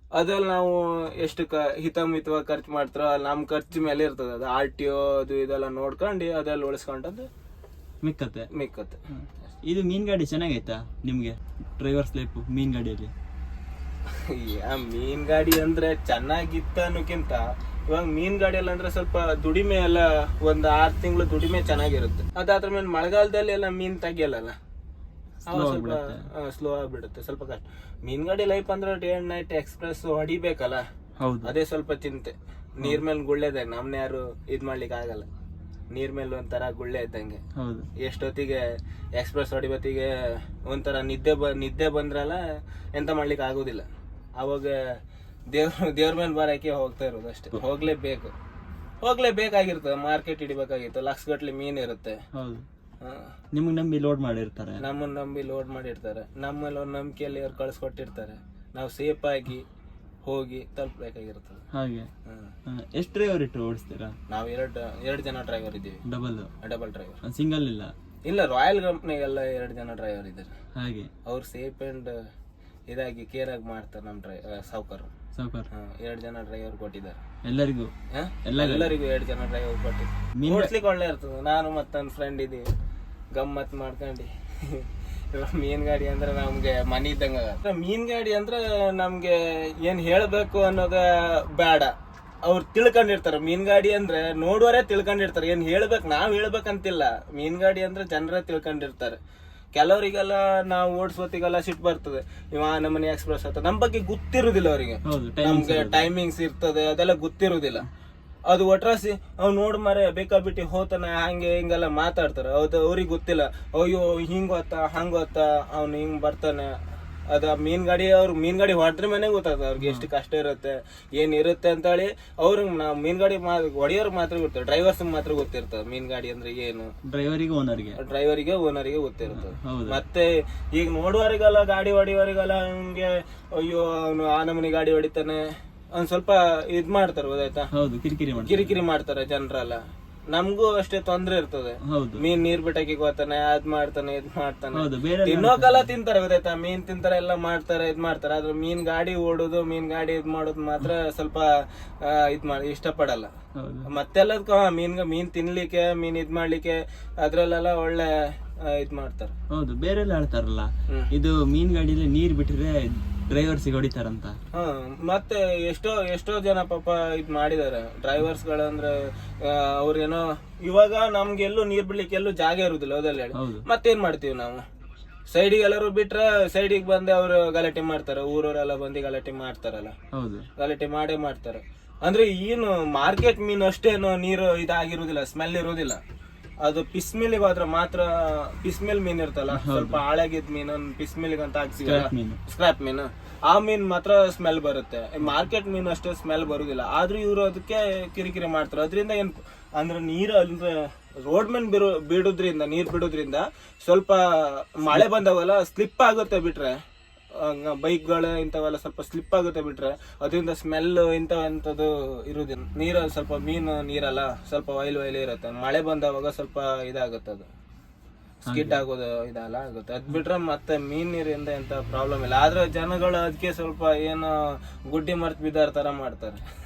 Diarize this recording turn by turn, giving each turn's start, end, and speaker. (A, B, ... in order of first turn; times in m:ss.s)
0:00.2-0:07.3 A
0:08.0-0:08.5 B
0:08.5-0:09.0 A
0:09.1-0:13.1 B
0:14.1-0:24.5 A
0:25.4-0:30.8 A
0:25.5-0:26.2 B
0:31.2-0:31.5 B
0:31.4-0:35.3 A
0:35.9-0:37.4 A
0:37.6-0:37.9 B
0:38.0-0:38.6 A
0:39.2-0:40.1 A
0:40.6-0:42.4 A
0:42.9-0:44.9 A
0:45.5-0:48.3 A
0:49.0-0:52.2 A
0:52.3-0:52.6 B
0:53.0-0:53.3 A
0:53.5-0:54.8 B
0:54.8-0:59.6 A
1:00.2-1:01.6 A
1:01.7-1:02.1 B
1:02.2-1:02.5 A
1:02.7-1:04.1 B
1:04.3-1:06.0 A
1:06.0-1:06.5 B
1:06.6-1:07.2 A
1:07.2-1:07.9 B
1:08.3-1:10.5 A
1:10.8-1:11.1 B
1:11.2-1:12.1 A
1:12.9-1:15.1 A
1:15.4-1:15.7 B
1:15.7-1:17.2 A
1:17.4-1:17.9 B
1:18.1-1:22.6 A
1:18.4-1:18.9 B
1:20.4-1:20.7 B
1:23.3-1:31.9 A
1:32.4-1:39.2 A
1:39.8-1:47.8 A
1:45.0-1:46.1 B
1:48.5-1:56.8 A
1:57.3-2:06.9 A
1:59.8-2:00.1 B
2:07.1-2:08.0 B
2:08.0-2:15.4 A
2:09.3-2:10.0 B
2:16.0-2:17.7 A
2:17.7-2:18.8 B
2:18.4-2:31.5 A
2:21.8-2:22.2 B
2:24.8-2:25.9 B
2:32.0-2:33.3 A
2:33.6-2:33.9 B
2:33.9-2:39.3 A
2:39.5-2:44.4 B
2:44.5-2:54.6 A
2:53.4-2:53.6 B
2:55.3-2:59.9 A
3:00.1-3:00.5 B
3:00.6-3:06.0 A
3:06.6-3:26.8 A
3:09.5-3:10.0 B
3:11.8-3:12.4 B
3:27.4-3:37.5 A
3:38.4-3:46.5 A
3:38.5-3:38.8 B